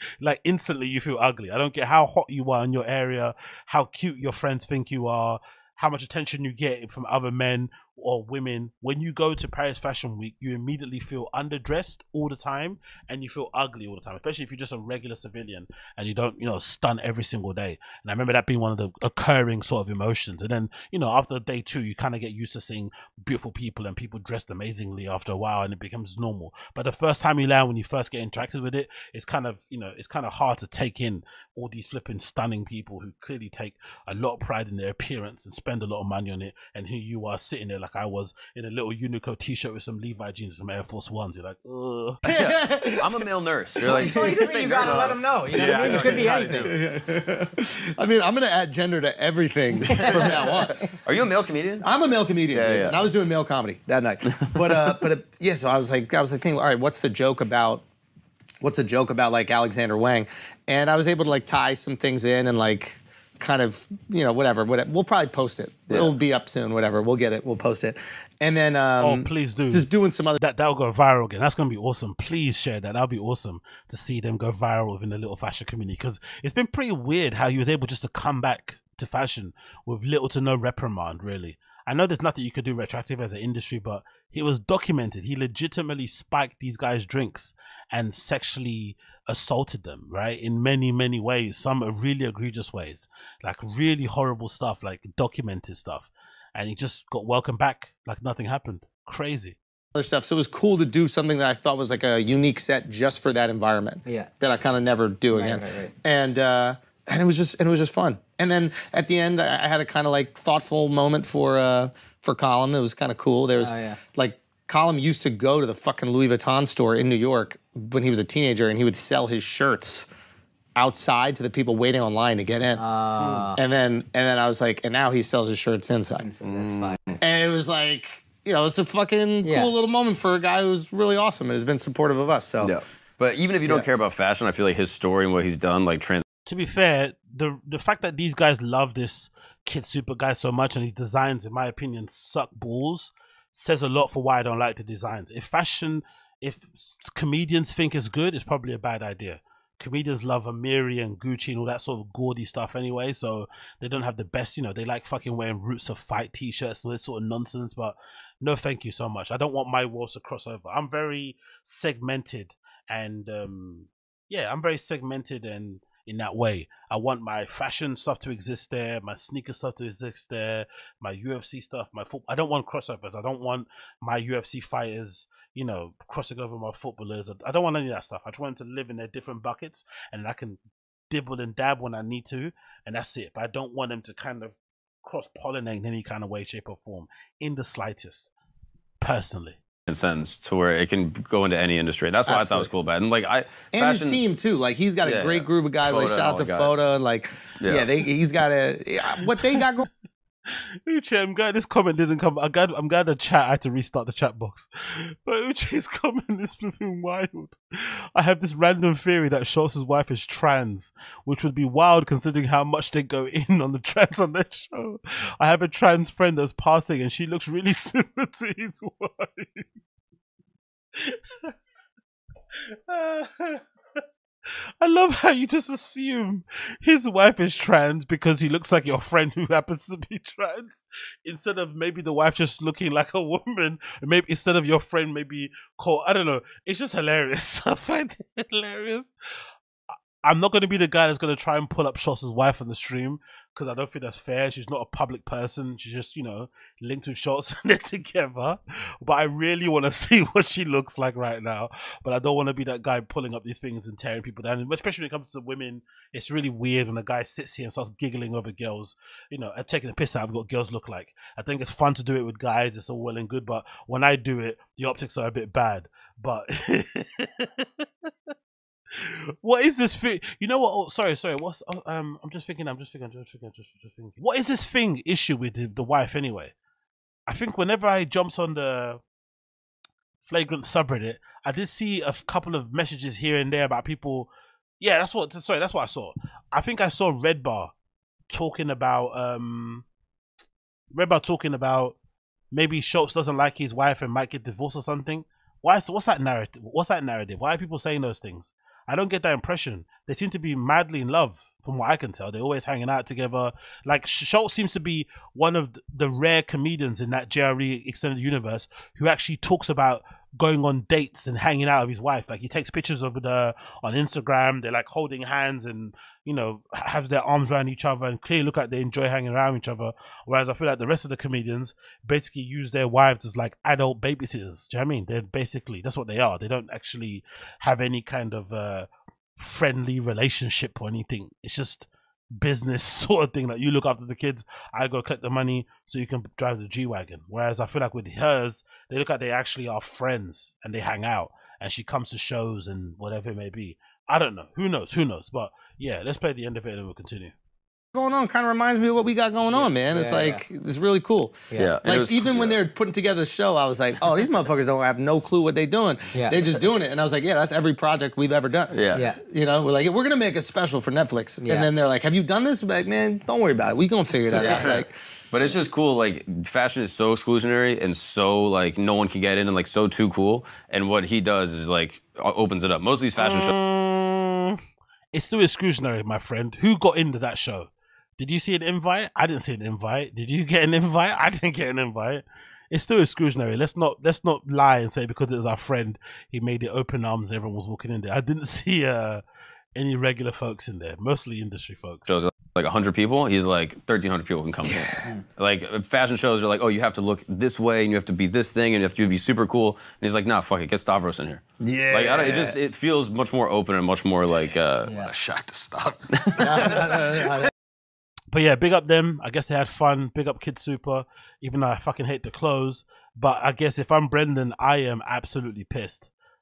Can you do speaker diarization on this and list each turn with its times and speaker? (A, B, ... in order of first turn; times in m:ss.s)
0:00.2-0:42.2 A
0:42.2-0:43.2 B
0:42.2-0:46.7 C
0:43.8-0:45.0 B
0:43.8-0:46.8 D
0:45.5-0:50.9 B
0:49.9-0:50.2 D
0:50.0-0:51.9 C
0:51.8-0:57.8 B
0:52.5-0:53.0 C
0:54.3-0:54.8 C
0:58.6-1:10.4 B
1:09.0-1:39.6 A
1:39.9-2:00.1 B
1:44.0-1:44.3 D
1:45.3-1:45.9 D
1:53.6-1:54.0 D
2:00.8-2:02.8 B
2:02.8-2:03.6 D
2:03.5-2:06.3 B
2:06.2-2:07.0 D
2:06.5-2:07.0 E
2:07.2-2:12.8 B
2:09.4-2:09.7 D
2:12.6-2:16.2 C
2:16.4-3:08.3 A
3:09.0-3:09.6 A
3:09.9-3:14.2 C
3:12.3-3:12.7 B
3:13.7-3:19.9 B
3:15.0-3:16.8 C
3:17.6-3:17.9 C
3:20.8-3:27.6 A
3:28.1-3:39.7 A
3:41.0-3:41.5 A
3:42.9-3:43.6 A
3:44.8-3:59.1 A
4:00.2-4:27.8 A
4:29.0-4:36.5 A
4:37.3-4:39.0 A
4:40.2-4:47.7 A
4:48.3-4:49.8 A
4:50.9-4:52.0 A
4:52.5-5:47.3 A
5:47.9-6:04.9 B
5:49.5-5:50.4 D
5:51.5-5:52.6 C
5:58.7-5:59.1 C
5:58.9-5:59.2 D
6:01.4-6:01.7 D
6:04.1-6:13.5 C
6:13.2-6:14.6 A
6:15.1-6:29.2 A
6:29.7-6:32.2 A
6:32.1-6:45.0 C
6:34.6-6:35.1 B
6:41.6-6:42.6 B
6:44.9-6:45.1 D
6:44.9-6:47.5 E
6:46.1-6:47.0 C
6:46.4-6:47.5 B
6:48.3-6:56.1 A